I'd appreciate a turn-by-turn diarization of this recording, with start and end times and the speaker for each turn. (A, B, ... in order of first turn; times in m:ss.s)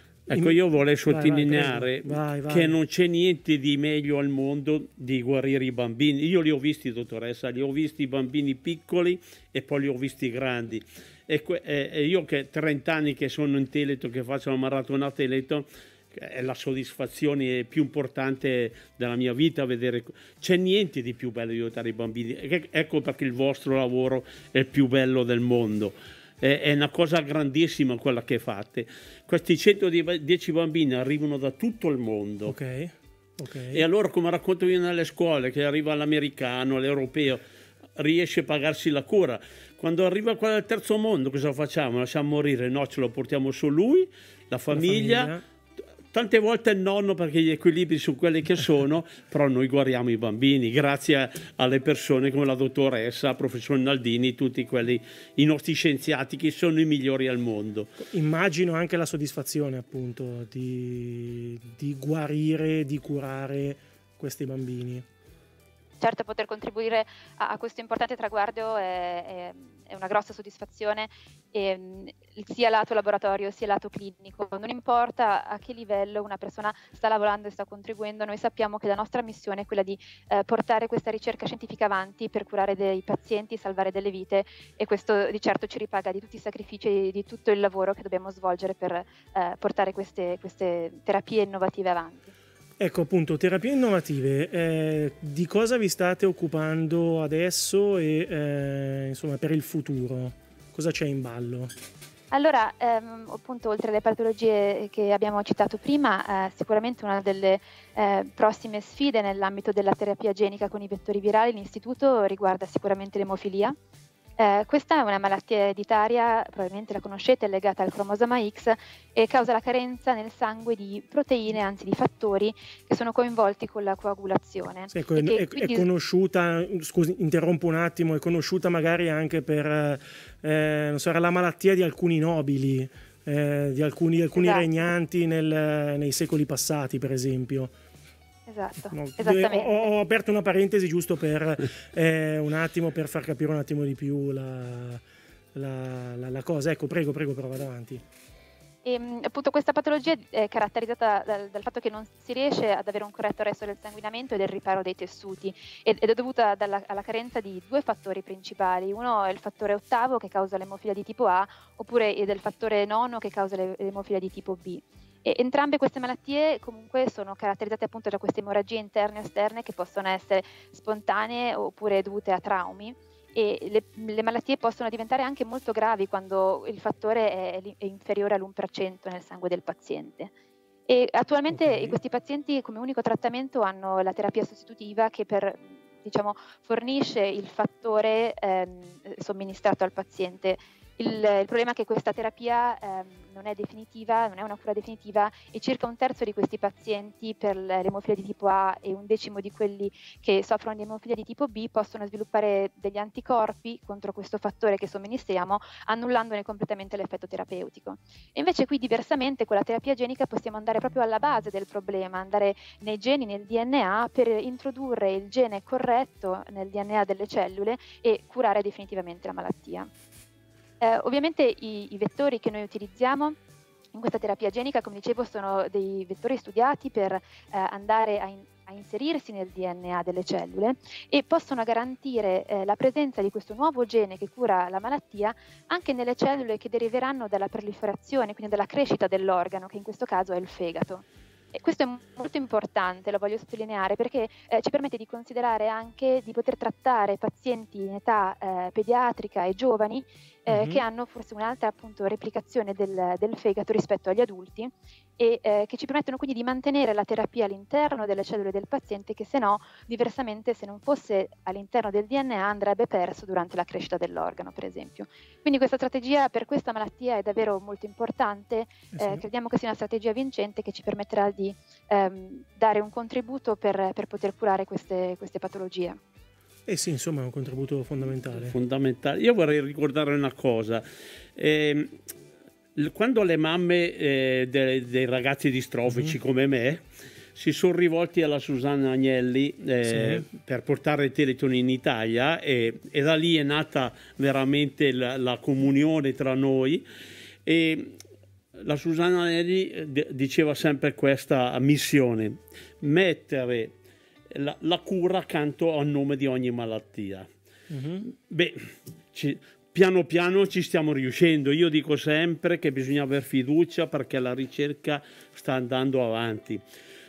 0:00.3-0:32.6 A
0:00.3-0:02.8 B
0:32.5-0:33.8 B
0:33.7-0:37.4 A
0:38.0-0:45.3 A
0:44.7-0:45.4 B
0:46.1-0:57.9 A
0:58.0-1:05.1 B
1:06.0-1:32.3 C
1:32.8-1:41.7 B
1:42.3-1:53.8 C
1:54.4-2:05.9 C
2:04.9-2:17.7 B
2:14.4-2:14.6 C
2:18.5-2:19.8 C
2:18.9-2:25.0 B
2:25.5-2:28.0 B
2:28.8-3:00.3 C
3:00.9-3:39.9 C
3:01.5-3:02.0 B
3:40.8-3:43.4 C
3:43.9-4:36.0 C
4:10.5-4:10.8 B
4:28.9-4:29.2 B
4:36.7-4:38.6 B
4:38.5-4:40.8 A
4:41.4-4:42.0 A
4:42.8-4:46.8 A
4:45.9-4:46.2 B
4:47.4-4:56.8 A
4:49.8-4:50.3 B
4:57.4-4:58.0 A
4:58.6-5:03.8 A
5:04.3-5:07.3 A
5:07.7-5:08.1 B
5:08.1-5:16.6 A